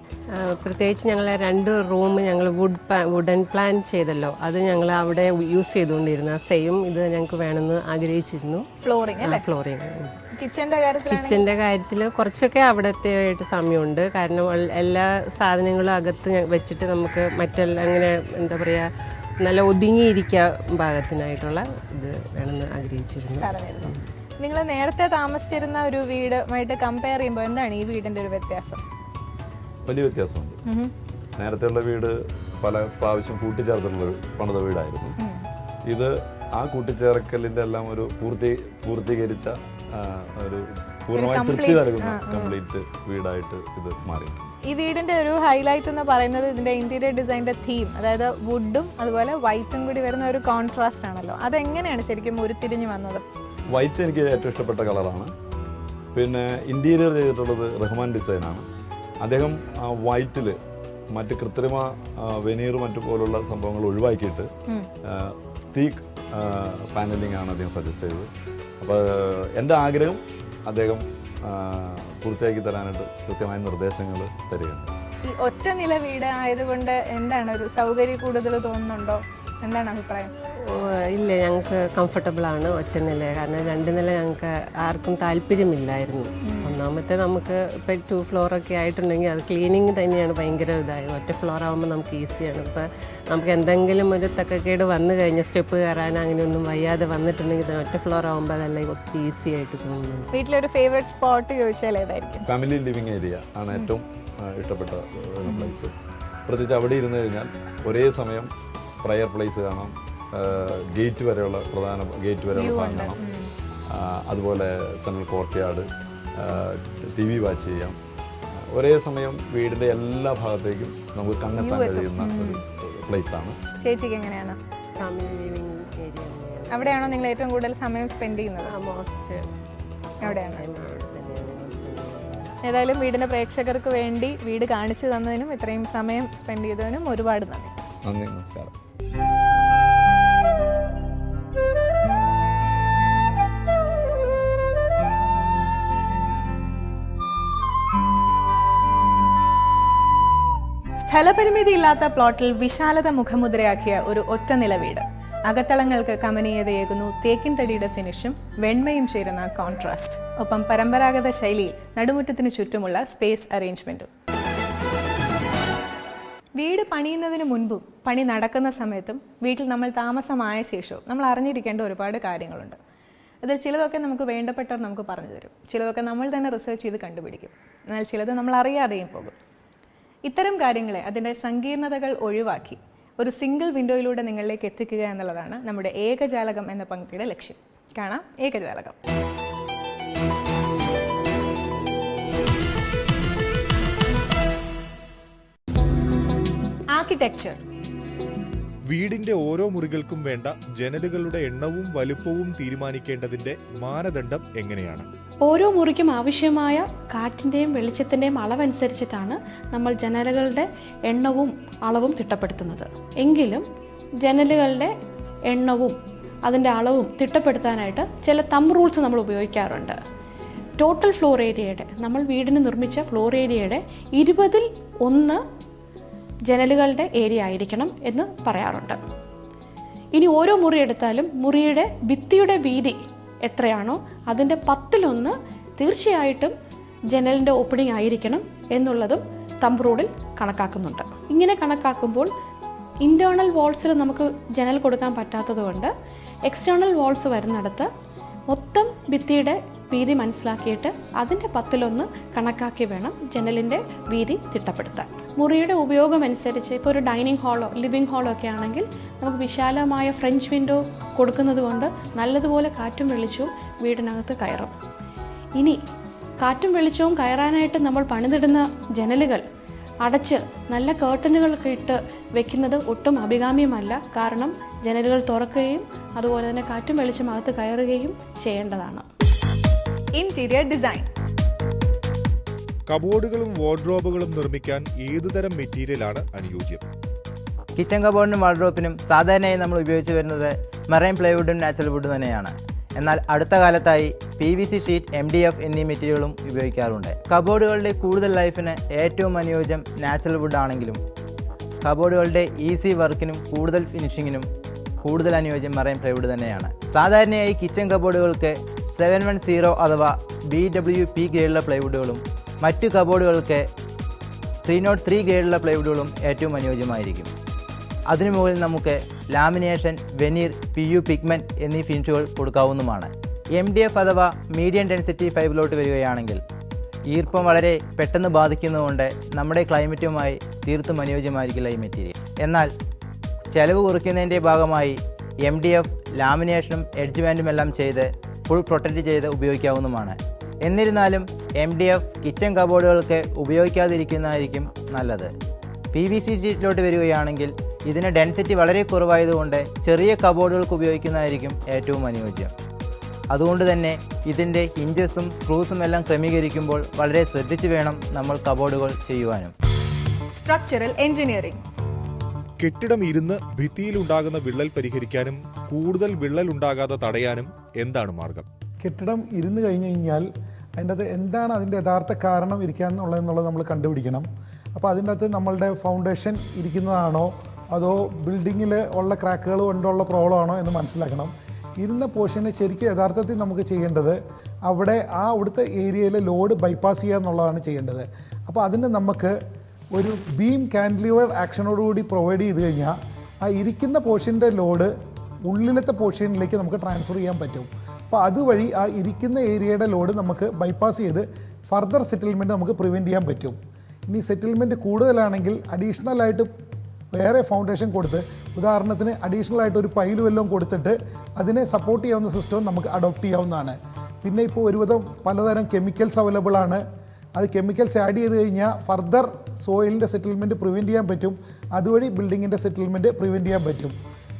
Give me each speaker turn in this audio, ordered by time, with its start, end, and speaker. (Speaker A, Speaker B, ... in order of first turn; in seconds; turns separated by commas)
Speaker A: 0.3-8.7, Speaker B: 8.8-9.4, Speaker A: 9.2-10.2, Speaker B: 10.3-11.4, Speaker A: 11.1-18.9, Speaker A: 19.4-24.0, Speaker B: 23.4-28.8, Speaker C: 29.9-30.6, Speaker B: 30.7-30.9, Speaker C: 31.4-35.2, Speaker B: 35.2-35.5, Speaker C: 35.9-44.5, Speaker B: 41.1-42.5, Speaker B: 44.6-53.2, Speaker C: 53.7-55.3, Speaker C: 56.1-58.6, Speaker C: 59.2-60.6, Speaker C: 61.1-64.5, Speaker C: 65.0-68.3, Speaker C: 68.8-74.9, Speaker B: 75.2-80.3, Speaker A: 80.6-100.3, Speaker B: 86.4-86.7, Speaker B: 100.3-102.5, Speaker C: 102.5-105.9, Speaker B: 105.5-105.7, Speaker C: 106.5-108.5, Speaker C: 109.0-113.2, Speaker B: 112.5-113.5, Speaker C: 113.9-118.0, Speaker C: 118.5-123.6, Speaker B: 121.6-122.6, Speaker B: 123.8-124.6, Speaker A: 125.0-127.3, Speaker B: 126.7-128.7, Speaker A: 128.6-129.5, Speaker A: 130.2-132.5, Speaker B: 130.2-130.6, Speaker B: 132.6-137.8, Speaker C: 138.0-138.7, Speaker B: 151.0-164.1, Speaker B: 166.6-172.8, Speaker B: 173.4-179.3, Speaker B: 180.2-188.9, Speaker B: 196.9-197.6, Speaker D: 198.9-205.1, Speaker E: 205.4-213.6, Speaker E: 214.2-214.9, Speaker E: 215.5-219.9, Speaker E: 220.8-225.4, Speaker E: 226.5-229.0, Speaker E: 230.1-236.5, Speaker E: 237.1-242.3, Speaker E: 243.0-245.9, Speaker E: 246.4-247.9, Speaker E: 248.5-264.7, Speaker E: 266.4-269.4, Speaker E: 270.0-279.1, Speaker B: 280.1-281.1, Speaker D: 282.9-286.8, Speaker F: 287.8-301.0, Speaker F: 301.8-304.5, Speaker F: 305.0-313.7, Speaker F: 314.6-317.3, Speaker F: 318.1-326.4, Speaker F: 327.1-332.7, Speaker F: 333.5-345.3, Speaker F: 345.9-352.5, Speaker F: 353.3-359.5, Speaker B: 360.3-361.6, Speaker D: 362.6-368.4, Speaker G: 368.8-389.3, Speaker G: 389.9-394.9, Speaker G: 395.5-403.6, Speaker G: 404.1-406.5, Speaker G: 407.1-416.8, Speaker G: 417.4-423.9